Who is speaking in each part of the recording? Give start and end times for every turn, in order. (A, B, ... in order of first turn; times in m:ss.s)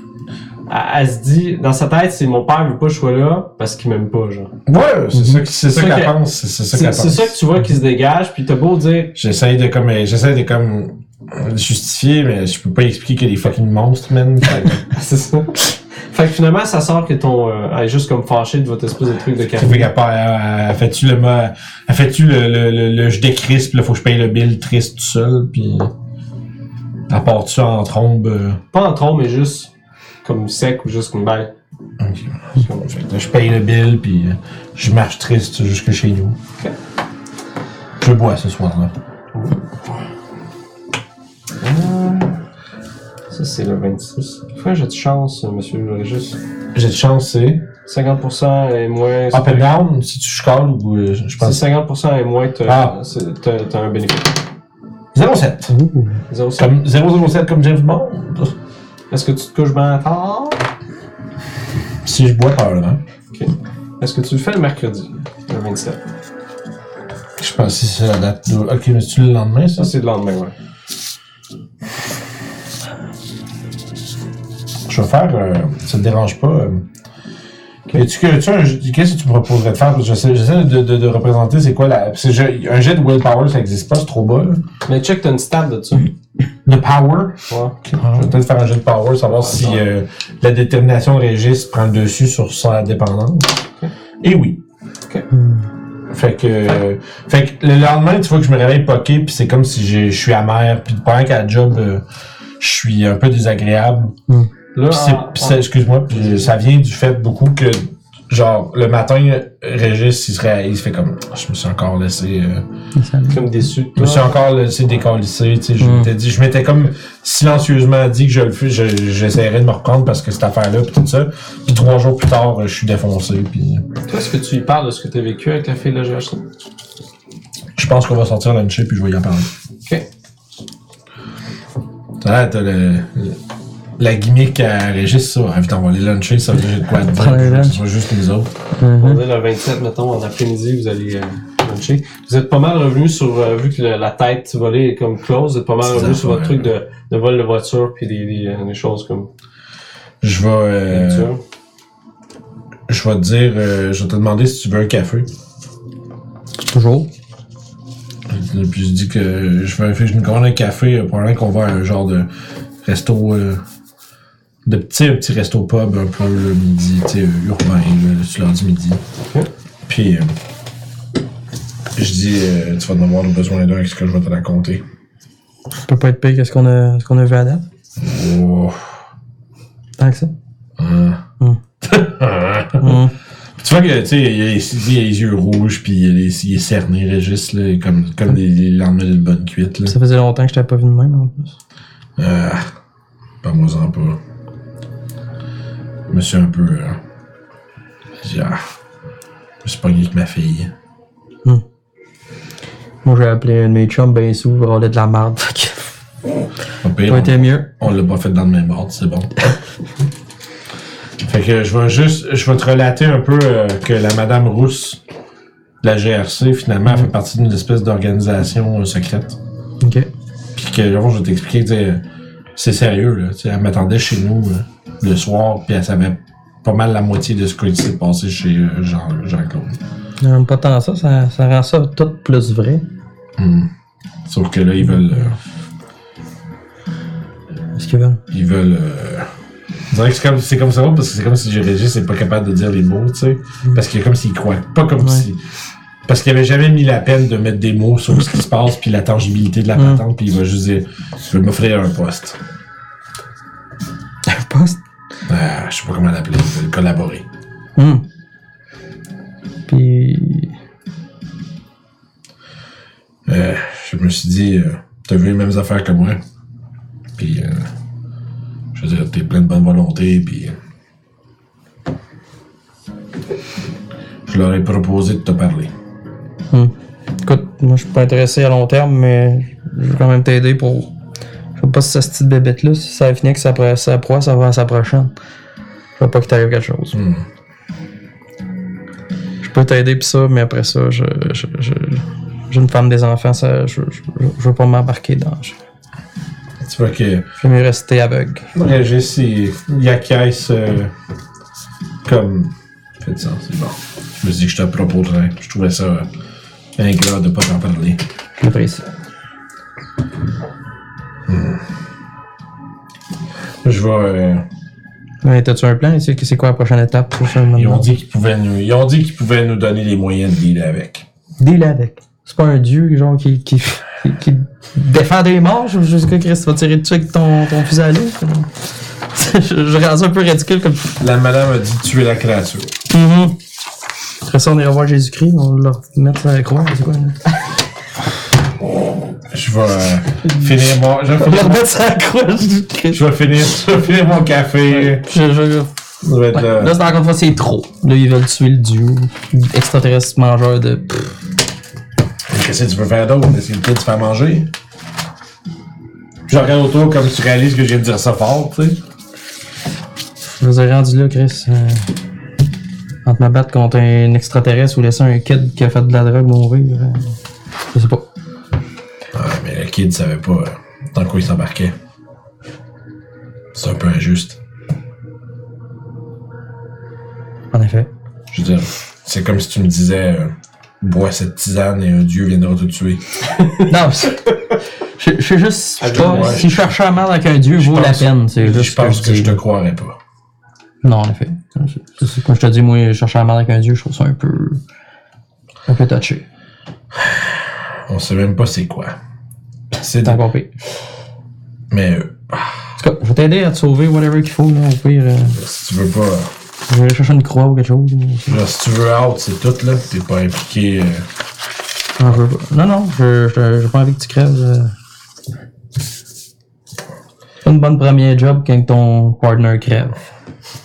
0:00.7-0:04.5 A
0:04.6-0:07.4 B
0:05.1-0:05.4 C
0:05.7-0:06.2 A
0:06.7-0:09.1 A
0:09.1-0:14.8 B
0:14.9-0:19.9 A
0:19.6-0:25.9 B
0:27.1-0:28.6 B
0:28.7-0:29.7 A
0:30.2-0:31.5 A
0:32.0-0:36.4 B
0:32.6-0:32.8 A
0:38.0-0:38.9 B
0:39.3-0:40.0 A
0:41.6-0:42.4 A
0:43.3-0:46.4 A
0:46.7-0:47.6 B
0:47.8-0:49.7 A
0:49.3-0:51.6 B
0:51.4-0:54.4 A
0:52.6-0:52.9 B
0:55.1-0:55.7 B
0:55.7-0:56.2 C
0:56.3-0:56.7 A
0:56.6-0:58.5 B
0:59.1-1:00.6 A
1:02.0-1:03.0 B
1:03.3-1:06.0 A
1:07.4-1:09.9 B
1:09.8-1:10.5 A
1:14.9-1:16.8 B
1:17.9-1:24.6 B
1:24.8-1:26.1 A
1:26.6-1:33.5 B
1:27.5-1:27.8 A
1:29.2-1:29.8 A
1:34.2-1:34.6 B
1:35.3-1:35.6 C
1:36.1-1:42.0 B
1:42.6-1:44.2 B
1:44.7-1:46.5 A
1:44.9-1:52.6 B
1:53.0-1:53.4 C
1:53.3-1:54.4 A
1:54.0-2:03.9 B
1:55.8-1:56.1 C
2:04.1-2:06.4 A
2:07.8-2:09.5 B
2:12.2-2:13.4 B
2:14.0-2:18.5 B
2:17.1-2:17.8 C
2:18.8-2:19.2 C
2:19.0-2:29.3 A
2:25.8-2:26.7 B
2:30.2-2:31.3 B
2:30.9-2:31.4 A
2:32.9-2:35.3 B
2:36.7-2:37.1 C
2:38.3-2:42.3 B
2:42.8-2:43.6 B
2:44.6-2:49.0 B
2:49.9-2:50.3 B
2:52.0-2:54.8 B
2:55.9-2:57.6 C
2:58.0-2:58.9 B
3:00.0-3:00.3 C
3:00.8-3:01.2 B
3:01.8-3:03.0 B
3:02.8-3:03.1 C
3:03.6-3:09.9 B
3:09.9-3:11.5 C
3:12.2-3:12.6 B
3:13.4-3:14.2 B
3:16.1-3:17.0 B
3:18.2-3:18.6 B
3:19.6-3:20.7 B
3:23.0-3:25.9 C
3:26.8-3:29.3 B
3:27.1-3:27.7 C
3:31.2-3:35.0 B
3:35.8-3:39.4 B
3:39.8-3:40.1 C
3:40.6-3:42.0 B
3:42.6-3:49.8 B
3:50.2-3:52.8 C
3:53.4-3:53.7 B
3:54.3-3:55.4 B
3:57.7-3:58.2 C
3:58.3-3:59.3 B
3:59.9-4:05.4 B
4:06.1-4:12.4 B
4:09.8-4:10.0 C
4:14.2-4:14.8 C
4:15.3-4:17.2 B
4:17.8-4:18.0 C
4:19.7-4:20.5 C
4:23.2-4:26.2 B
4:27.2-4:27.7 B
4:28.7-4:30.5 B
4:34.3-4:35.7 B
4:36.5-4:40.9 C
4:41.6-4:45.1 C
4:46.0-4:47.0 C
4:46.9-4:47.2 B
4:49.4-4:55.6 C
4:56.6-4:57.3 B
4:57.4-4:58.5 C
4:58.5-5:00.9 B
5:02.0-5:06.1 B
5:06.8-5:08.0 B
5:08.4-5:08.8 C
5:11.3-5:11.6 B
5:13.6-5:14.4 B
5:15.2-5:17.8 C
5:17.5-5:21.0 B
5:21.4-5:28.5 C
5:29.1-5:31.0 C
5:31.0-5:32.7 B
5:32.9-5:33.4 C
5:34.2-5:37.3 C
5:39.3-5:41.6 B
5:41.1-5:43.0 C
5:42.9-5:45.1 B
5:44.7-5:45.7 C
5:46.0-5:46.8 B
5:46.3-5:51.1 C
5:52.3-5:54.5 B
5:56.3-5:58.8 B
6:00.4-6:01.9 C
6:03.0-6:07.1 C
6:07.7-6:08.0 C
6:09.1-6:11.7 B
6:13.5-6:14.4 B
6:17.5-6:17.9 C
6:18.3-6:23.0 B
6:23.4-6:23.7 A
6:23.6-6:29.4 C
6:25.8-6:26.5 A
6:25.9-6:26.7 B
6:27.6-6:30.0 B
6:30.8-6:34.6 C
6:35.7-6:36.2 C
6:36.9-6:39.0 B
6:39.7-6:40.2 B
6:40.0-6:40.5 C
6:41.7-6:42.7 B
6:42.8-6:45.4 C
6:45.3-6:46.3 B
6:46.7-6:48.4 C
6:48.3-6:51.1 B
6:52.0-6:54.7 C
6:57.4-7:00.0 C